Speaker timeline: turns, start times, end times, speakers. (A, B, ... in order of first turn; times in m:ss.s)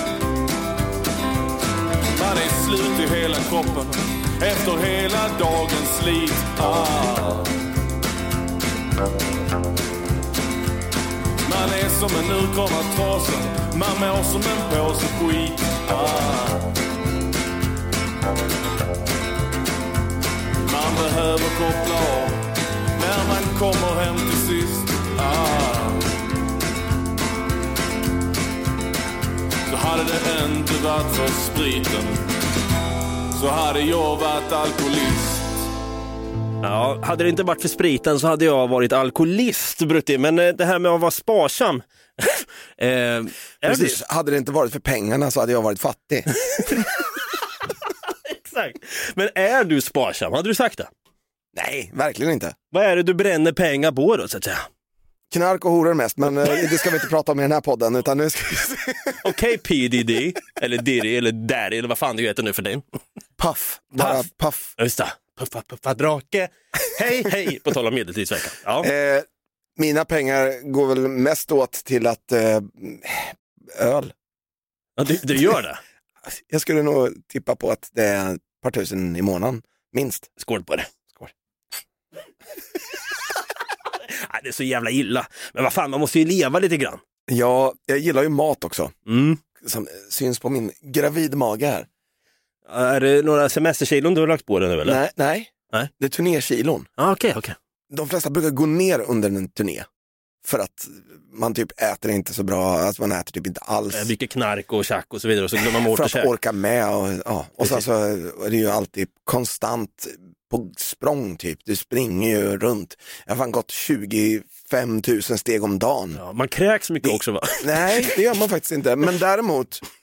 0:02.2-0:07.5 A
0:11.4-0:16.7 A
0:20.6-0:22.5 A
0:23.0-0:26.1 A
0:29.7-0:32.2 A
0:33.3-0:35.6 A
0:36.6-0:44.0 B
0:43.6-0:46.4 C
0:48.1-0:50.9 B
0:51.6-0:52.6 C
0:52.7-0:54.7 B
0:55.3-0:59.2 C
0:59.2-1:02.8 B
1:03.4-1:04.7 C
1:04.0-1:08.9 B
1:08.8-1:09.3 C
1:09.8-1:14.1 C
1:15.0-1:15.8 B
1:16.5-1:20.3 C
1:20.4-1:21.2 B
1:24.1-1:27.0 B
1:27.3-1:29.0 C
1:29.1-1:29.4 B
1:29.6-1:31.9 C
1:32.7-1:35.0 B
1:34.8-1:36.9 C
1:37.0-1:37.6 B
1:37.9-1:39.9 C
1:40.4-1:44.1 C
1:43.9-1:46.3 B
1:45.8-1:56.2 C
1:56.2-1:58.1 B
1:57.0-1:59.8 C